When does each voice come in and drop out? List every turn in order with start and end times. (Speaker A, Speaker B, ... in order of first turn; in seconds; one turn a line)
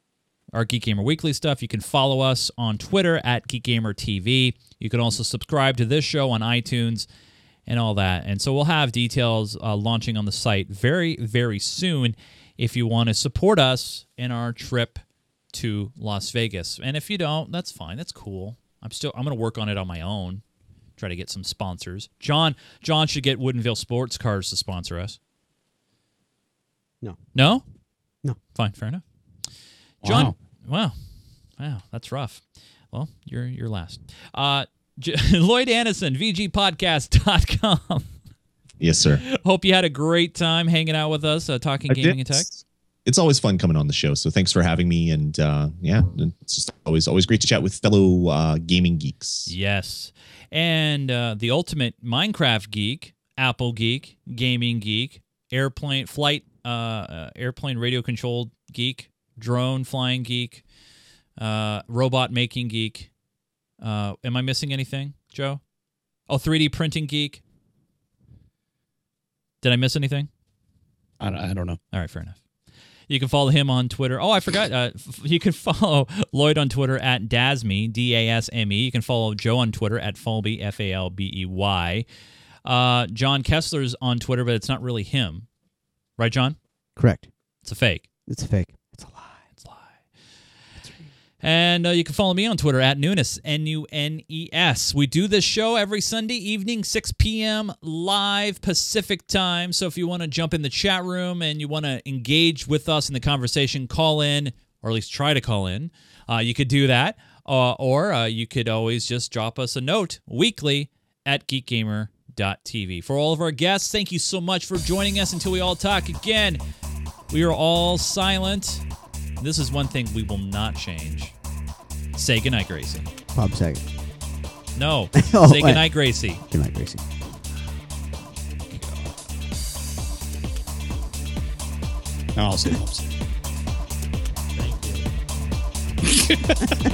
Speaker A: 0.5-7.1
Speaker A: 7.7-20.4
Speaker A: 21.0-25.2
Speaker A: 27.3-27.6
Speaker A: 28.5-29.0
Speaker B: 30.0-30.4
Speaker A: 30.0-31.0
Speaker A: 31.6-38.1
Speaker C: 38.8-39.2
Speaker A: 39.2-42.5
Speaker C: 41.9-49.5
Speaker A: 49.5-60.6
Speaker A: 61.4-63.1
Speaker A: 63.8-65.6
Speaker A: 66.3-67.4
Speaker A: 69.6-70.3
Speaker B: 71.2-71.8
Speaker A: 71.9-72.4
Speaker A: 73.1-82.1
Speaker A: 82.7-85.5
Speaker A: 86.2-86.6
Speaker D: 87.0-87.3
Speaker A: 87.6-88.1
Speaker D: 88.3-89.4
Speaker A: 89.6-90.0
Speaker A: 91.4-116.6
Speaker A: 117.3-118.8
Speaker A: 119.4-121.4
Speaker A: 122.2-123.1
Speaker D: 123.3-123.8
Speaker A: 124.8-126.4
Speaker D: 125.2-127.0
Speaker A: 128.7-129.1
Speaker B: 132.4-133.1
Speaker B: 134.6-134.9
Speaker B: 136.1-136.8